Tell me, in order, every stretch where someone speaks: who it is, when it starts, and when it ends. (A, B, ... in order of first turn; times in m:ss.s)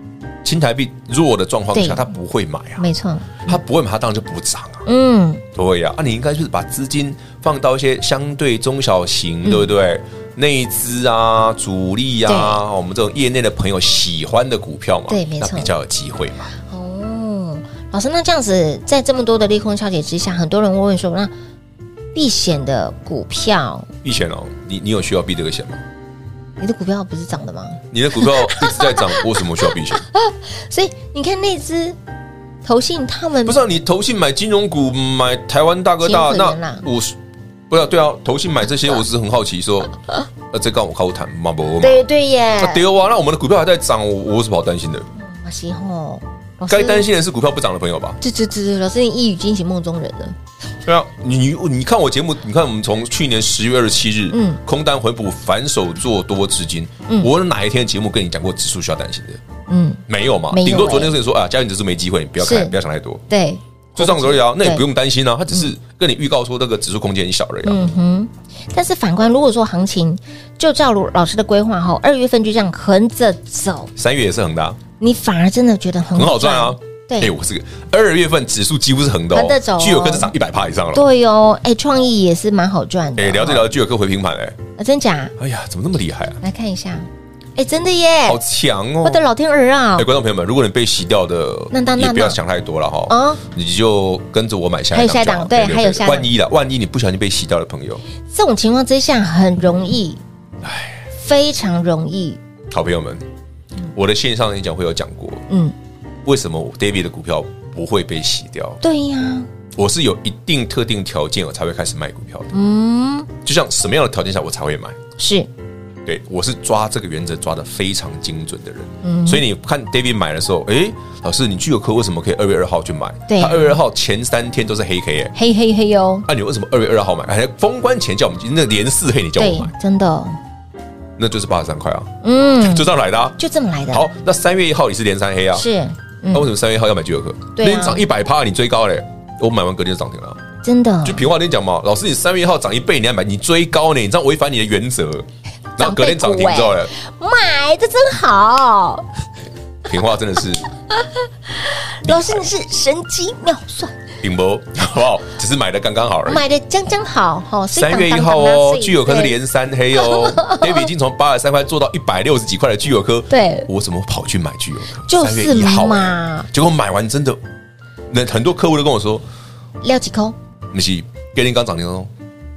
0:00.4-0:02.8 A
0:01.7-0:02.0 B
0:02.8-0:03.6 B
0:03.4-0:04.8 A
0:04.8-0:05.4 B
0:05.5-0:16.5 A
0:12.3-0:12.6 B
0:15.1-0:15.7 B
0:16.6-0:21.3 B
0:22.1-0:23.9 B
0:24.0-0:25.8 A
0:26.6-0:32.0 B
0:27.9-0:30.0 A
0:32.6-0:33.6 B
0:33.4-0:37.2 A
0:36.0-0:36.8 B
0:37.7-0:40.0 A
0:40.5-0:42.0 A
0:41.8-0:42.8 B
0:42.6-0:45.1 A
0:45.2-0:47.1 B
0:46.7-0:48.2 A
0:48.2-0:50.4 B
0:50.8-0:59.4 A
0:54.3-0:54.6 B
0:59.7-1:01.1 B
1:00.1-1:03.2 A
1:02.4-1:02.7 B
1:03.3-1:04.8 B
1:04.0-1:07.9 A
1:07.6-1:13.9 B
1:14.0-1:14.8 A
1:15.0-1:17.3 B
1:16.1-1:21.1 A
1:19.3-1:20.3 B
1:20.9-1:23.7 B
1:23.2-1:24.6 A
1:24.8-1:25.3 B
1:25.4-1:26.4 A
1:26.4-1:28.4 B
1:28.3-1:29.2 A
1:29.0-1:30.1 B
1:30.0-1:38.0 A
1:31.7-1:32.4 B
1:33.1-1:33.4 B
1:34.9-1:36.3 B
1:38.3-1:40.2 B
1:40.6-1:41.0 A
1:41.1-1:42.4 B
1:42.7-1:43.2 A
1:43.9-1:45.4 A
1:45.5-1:45.7 B
1:46.2-1:48.8 A
1:48.8-1:49.5 B
1:49.8-1:52.5 A
1:52.5-1:53.3 B
1:53.4-1:55.0 A
1:55.2-1:55.5 B
1:56.0-2:05.3 A
1:59.0-1:59.4 B
2:03.3-2:03.8 B
2:05.4-2:06.2 B
2:06.2-2:09.7 A
2:09.4-2:10.4 B
2:11.2-2:12.1 A
2:12.2-2:14.0 B
2:12.6-2:13.4 A
2:13.9-2:15.7 A
2:15.5-2:16.5 B
2:16.3-2:20.4 A
2:17.6-2:18.0 B
2:20.6-2:21.2 B
2:21.0-2:26.9 A
2:25.8-2:29.1 B
2:29.8-2:30.6 A
2:31.0-2:33.9 B
2:32.0-2:32.4 A
2:34.2-2:36.4 A
2:36.2-2:39.3 B
2:37.7-2:47.4 A
2:40.0-2:40.9 B
2:43.3-2:43.7 B
2:45.1-2:46.5 B
2:48.1-2:49.2 A
2:49.8-2:50.4 B
2:50.7-2:52.1 A